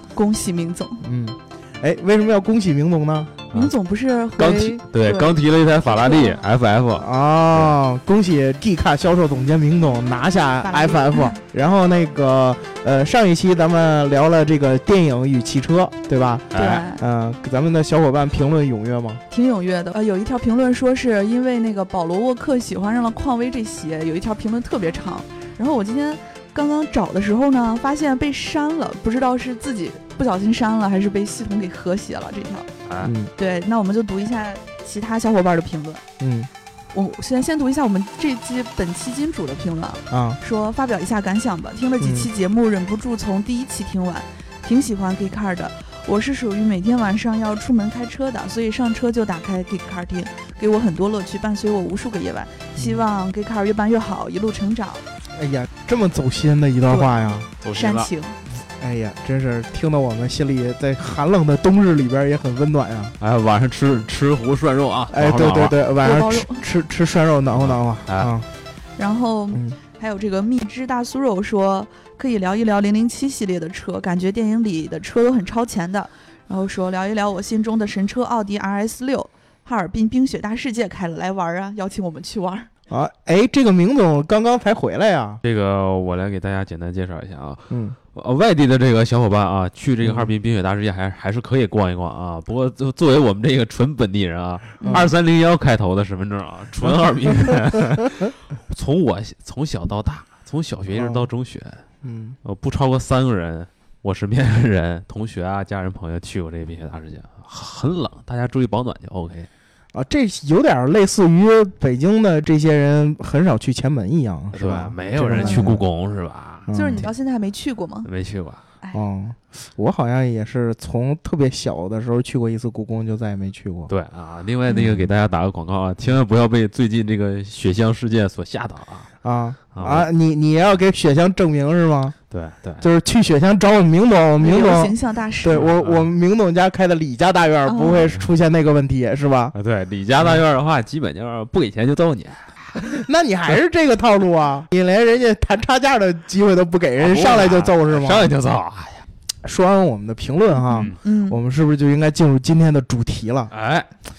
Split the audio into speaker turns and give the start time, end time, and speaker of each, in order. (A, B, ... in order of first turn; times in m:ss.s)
0:00.1-0:01.0 A
0:01.0-0:03.3 B
0:03.5-0:06.4 A
0:04.4-0:07.7 C
0:07.0-0:19.2 B
0:10.6-0:11.4 A
0:16.5-0:16.8 C
0:16.5-0:17.0 A
0:19.3-0:32.7 A
0:32.8-0:33.1 C
0:33.0-0:33.3 B
0:33.4-0:36.0 A
0:36.2-0:36.5 B
0:36.9-0:55.0 A
0:40.1-0:40.4 B
0:42.0-0:42.3 B
0:52.8-0:53.0 B
0:55.3-0:57.5 B
0:56.9-0:58.4 A
0:57.6-0:58.1 C
0:58.7-1:03.2 B
1:03.2-1:05.7 C
1:05.1-1:08.5 B
1:06.0-1:06.6 A
1:07.5-1:08.3 C
1:09.0-1:22.7 A
1:09.5-1:09.8 B
1:22.9-1:25.4 B
1:25.4-1:41.8 C
1:27.7-1:28.0 B
1:30.0-1:30.3 B
1:34.8-1:35.1 A
1:34.8-1:35.1 B
1:40.9-1:41.2 B
1:42.0-1:42.4 B
1:42.4-1:49.5 C
1:49.9-1:55.8 B
1:54.5-1:57.1 C
1:55.4-1:55.7 A
1:56.7-1:57.1 B
1:56.7-1:58.1 A
1:58.0-1:58.6 C
1:58.9-2:03.9 B
2:03.9-2:09.1 C
2:04.7-2:05.0 A
2:09.2-2:12.2 B
2:09.7-2:10.1 C
2:12.3-2:12.8 C
2:12.8-2:19.5 B
2:14.4-2:15.6 A
2:15.5-2:16.1 C
2:17.6-2:18.1 A
2:19.5-2:23.0 C
2:22.8-2:28.3 B
2:27.0-2:29.0 C
2:29.4-2:33.5 B
2:30.5-2:31.4 A
2:33.5-2:33.9 C